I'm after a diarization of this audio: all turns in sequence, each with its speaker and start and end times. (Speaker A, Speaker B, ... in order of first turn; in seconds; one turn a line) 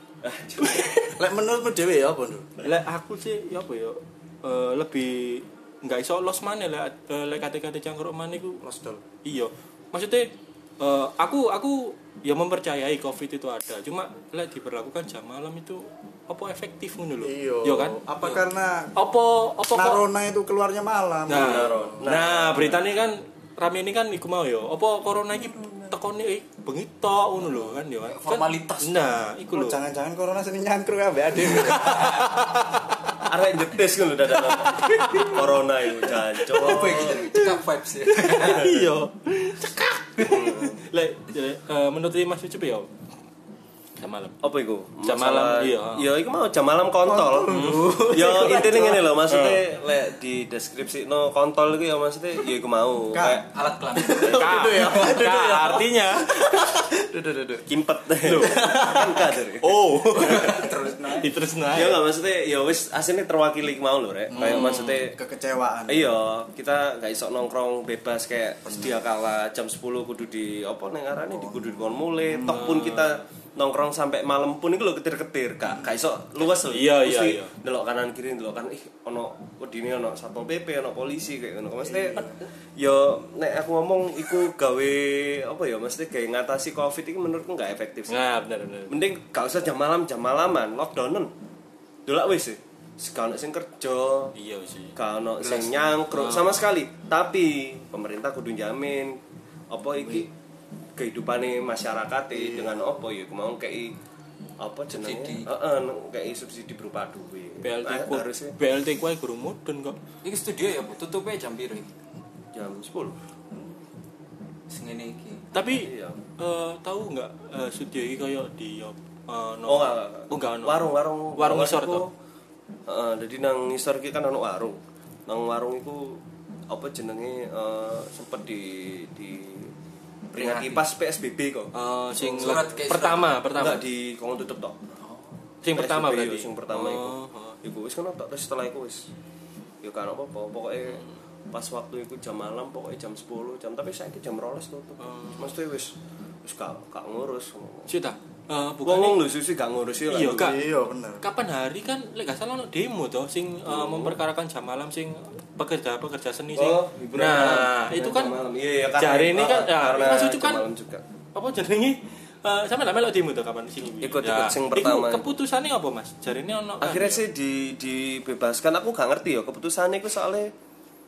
Speaker A: 0.2-1.0
Speaker B: 0.6-0.9
Speaker C: 1.2-2.5
Speaker B: 2.6-8.6
Speaker C: 8.6-9.0
Speaker B: 9.2-18.0
Speaker C: 17.2-18.9
Speaker B: 18.9-20.0
Speaker C: 19.7-22.1
Speaker B: 21.3-29.8
Speaker A: 21.3-23.1
Speaker C: 25.6-25.9
Speaker D: 27.4-29.2
Speaker C: 29.5-32.4
Speaker B: 31.4-33.0
Speaker A: 33.2-37.2
Speaker B: 34.3-37.5
Speaker D: 36.6-38.7
Speaker B: 38.1-42.9
Speaker A: 38.4-38.9
Speaker A: 40.2-40.8
Speaker B: 44.0-44.4
Speaker A: 44.4-53.5
Speaker B: 45.0-46.1
Speaker C: 47.0-49.1
Speaker B: 47.5-48.0
Speaker B: 49.3-49.6
Speaker C: 53.1-53.4
Speaker D: 53.5-54.9
Speaker C: 53.9-57.7
Speaker B: 54.2-56.4
Speaker A: 57.7-60.6
Speaker C: 58.2-59.4
Speaker B: 59.6-60.5
Speaker D: 60.1-61.3
Speaker B: 61.2-62.0
Speaker A: 61.7-65.2
Speaker C: 64.3-66.1
Speaker B: 64.4-65.0
Speaker A: 65.9-88.2
Speaker C: 71.3-72.8
Speaker B: 72.5-73.1
Speaker B: 76.4-77.5
Speaker C: 81.8-82.4
Speaker B: 88.1-89.0
Speaker A: 88.9-91.3
Speaker A: 92.0-94.3
Speaker B: 94.3-96.7
Speaker A: 95.0-99.2
Speaker A: 99.7-100.3
Speaker A: 101.0-103.9
Speaker C: 102.3-102.8
Speaker A: 104.6-108.5
Speaker D: 104.9-105.5
Speaker B: 107.6-110.0
Speaker D: 110.2-111.9
Speaker A: 112.5-113.2
Speaker D: 114.7-115.4
Speaker B: 115.5-122.0
Speaker A: 115.7-116.2
Speaker A: 119.7-122.1
Speaker A: 122.9-129.7
Speaker A: 130.3-132.7
Speaker D: 130.3-130.8
Speaker B: 131.7-133.8
Speaker D: 132.4-133.3
Speaker A: 133.6-134.8
Speaker D: 135.0-135.3
Speaker B: 135.6-137.6
Speaker A: 135.7-139.1
Speaker A: 139.8-147.9
Speaker B: 145.0-145.5
Speaker B: 147.9-149.2
Speaker A: 148.8-150.6
Speaker B: 150.1-150.7
Speaker C: 150.3-151.2
Speaker B: 151.2-158.4
Speaker A: 153.7-154.2
Speaker A: 156.5-161.0
Speaker B: 159.0-160.6
Speaker B: 161.3-167.2
Speaker A: 164.0-165.3
Speaker A: 166.8-170.5